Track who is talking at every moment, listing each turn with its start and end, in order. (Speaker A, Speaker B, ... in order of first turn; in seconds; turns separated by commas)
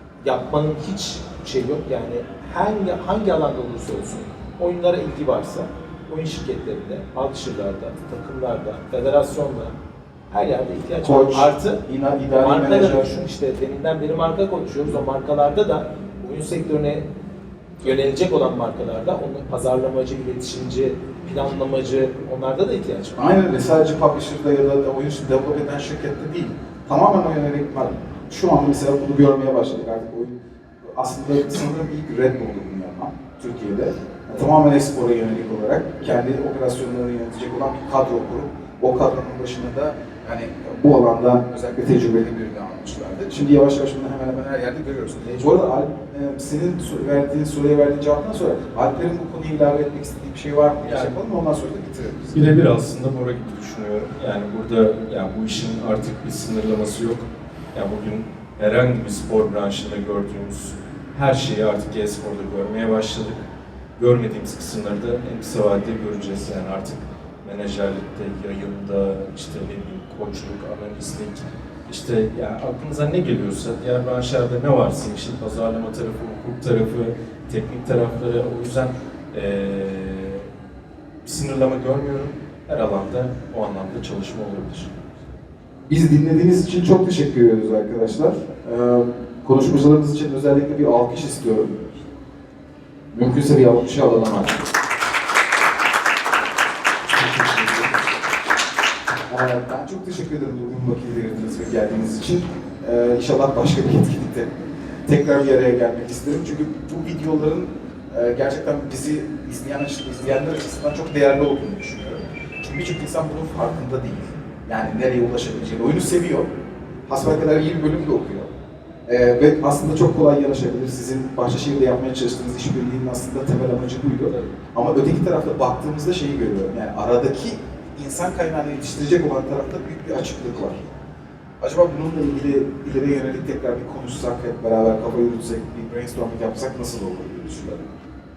Speaker A: 0.2-9.7, Speaker A: 10.3-11.8, Speaker B: 11.0-13.1, Speaker A: 12.3-17.1, Speaker A: 17.8-23.3, Speaker B: 23.2-52.5, Speaker A: 45.2-45.5, Speaker C: 50.9-51.1, Speaker C: 52.3-63.5, Speaker C: 64.0-80.5, Speaker C: 81.2-84.9, Speaker B: 85.9-91.7, Speaker B: 93.1-94.7, Speaker C: 97.3-97.8, Speaker B: 99.3-116.5, Speaker B: 117.1-118.5, Speaker B: 119.1-130.9, Speaker B: 131.6-138.0